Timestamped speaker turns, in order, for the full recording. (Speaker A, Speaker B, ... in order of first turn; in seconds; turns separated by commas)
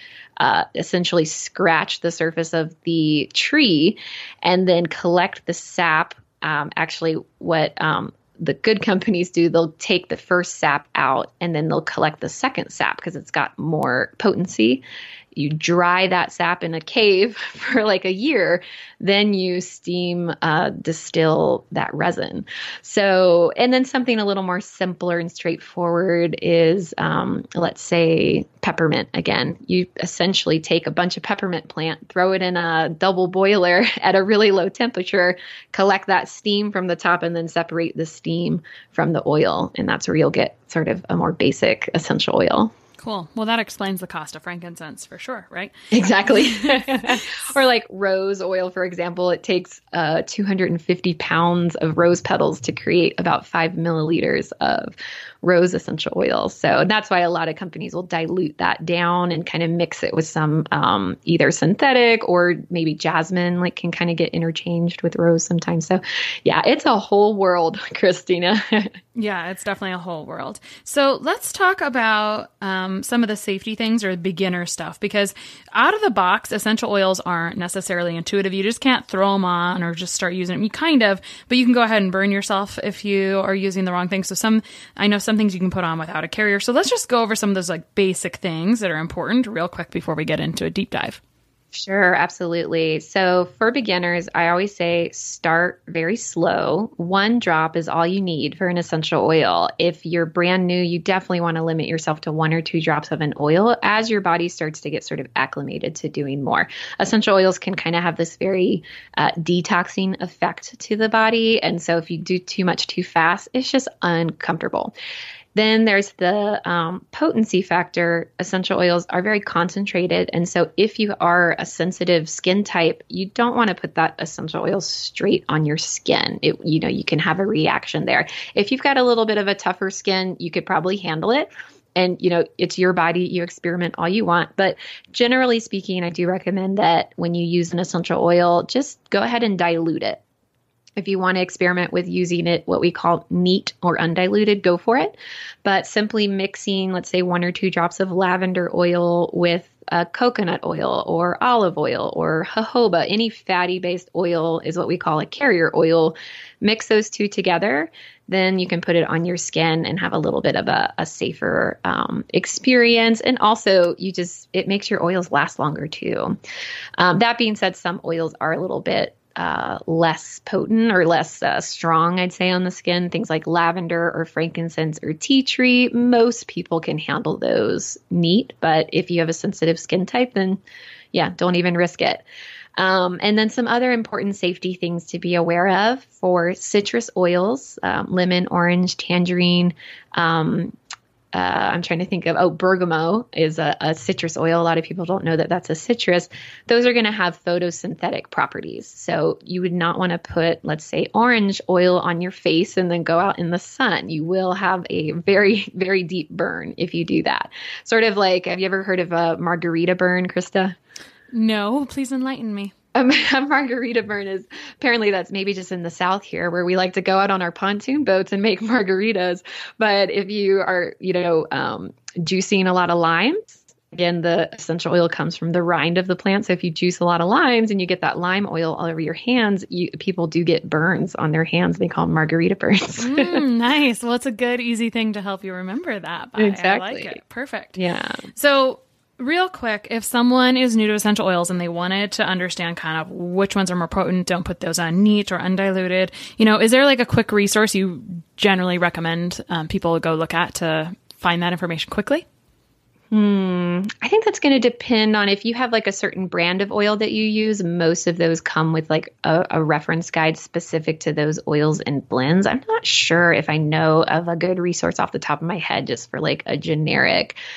Speaker A: 0.4-42.7, Speaker B: 43.0-47.3, Speaker A: 45.9-68.9, Speaker B: 69.1-91.2, Speaker A: 91.7-114.9, Speaker A: 115.5-140.2, Speaker A: 141.0-166.4, Speaker A: 167.0-180.6, Speaker A: 181.1-182.2, Speaker A: 182.8-190.7, Speaker A: 191.3-210.8, Speaker B: 211.3-212.7, Speaker A: 212.9-233.4, Speaker B: 233.0-237.8, Speaker A: 236.4-237.2, Speaker A: 237.8-238.2, Speaker B: 238.3-252.2, Speaker A: 253.1-267.4